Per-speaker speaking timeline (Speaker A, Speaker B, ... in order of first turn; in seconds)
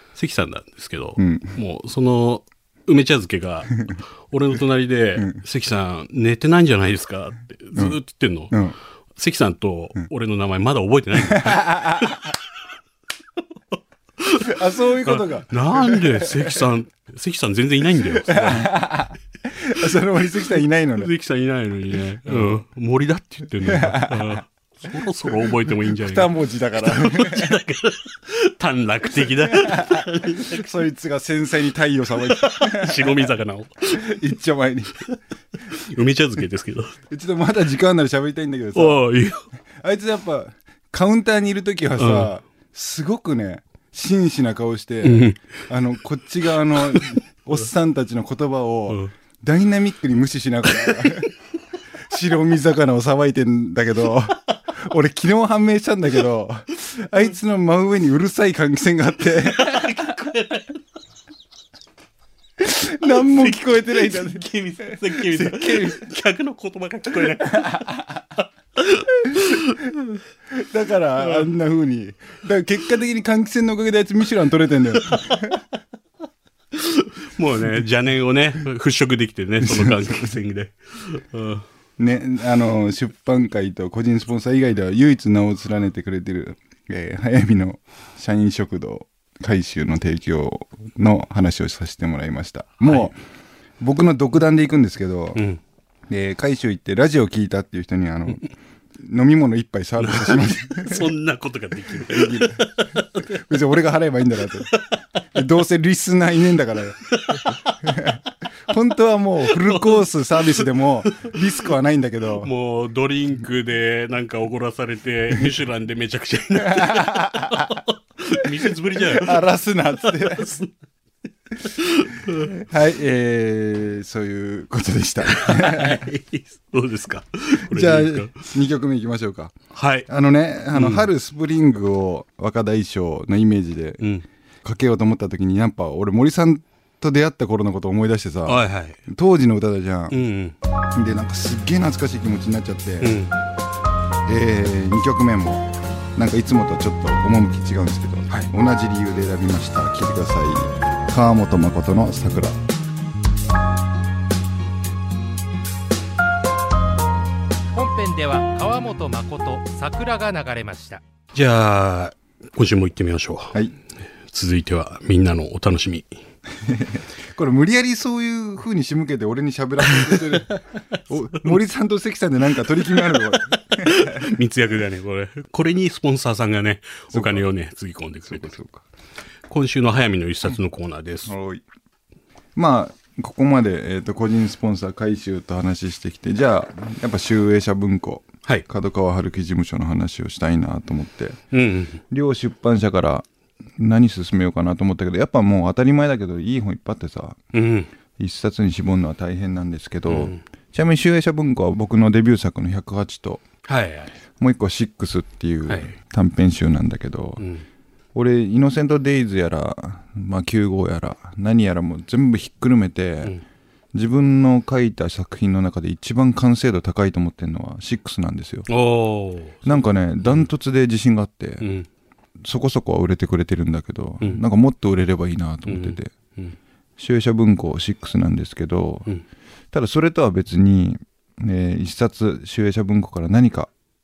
Speaker A: 0.1-8.6, 9.2-12.3, 14.2-18.8, 21.0-30.7, 32.1-34.2, 35.7-37.0, 38.8-39.5, 42.0-42.3, 45.0-45.4, 46.9-47.2, 50.8-51.3, 59.3-60.8, 63.0-68.0, 68.8-70.2, 71.2-71.5, 75.0-75.5, 76.7-81.7, 92.8-93.1, 95.3-95.6, 100.0-103.3, 107.1-108.2, 109.5-111.3, 112.3-119.4, 119.9-120.7, 121.6-122.5, 125.2-128.5, 129.7-130.1, 130.7-131.1, 138.5-139.0, 140.1-140.6, 143.0-143.3, 161.3-163.6, 164.3-166.1, 173.7-178.6, 179.5-181.3, 191.5-192.0, 197.5-197.9, 200.1-200.4, 203.7-204.2, 205.7-205.9, 207.4-207.7, 218.7-220.5, 221.6-221.9, 225.7-226.6
Speaker B: 1.2-1.6, 8.5-8.8, 11.2-12.2, 14.4-16.7, 18.1-21.1, 22.3-22.6, 23.6-24.4, 25.3-27.6, 29.1-33.4, 33.9-35.1, 37.1-39.0, 39.8-51.3, 52.1-60.1, 62.6-66.0, 67.1-68.0, 70.5-75.6, 79.6-80.4, 82.0-93.2, 93.8-95.4, 96.1-98.5, 99.0-101.1, 101.9-104.7, 105.3-107.0, 107.8-112.5, 116.6-117.7, 118.7-120.5, 122.5-126.1, 127.6-129.5, 130.1-134.0, 134.6-140.2, 140.9-143.2, 144.3-145.6, 146.2-152.6, 166.6-170.6, 171.1-174.3, 177.1-177.5, 178.3-178.8, 181.3-181.6, 182.6-191.4, 192.1-193.3, 193.8-197.4, 198.2-203.4, 204.4-207.4, 208.1-213.4, 213.9-218.7, 219.6-221.7, 222.4-226.1, 227.0-229.1, 229.7-233.7
Speaker C: 157.8-161.0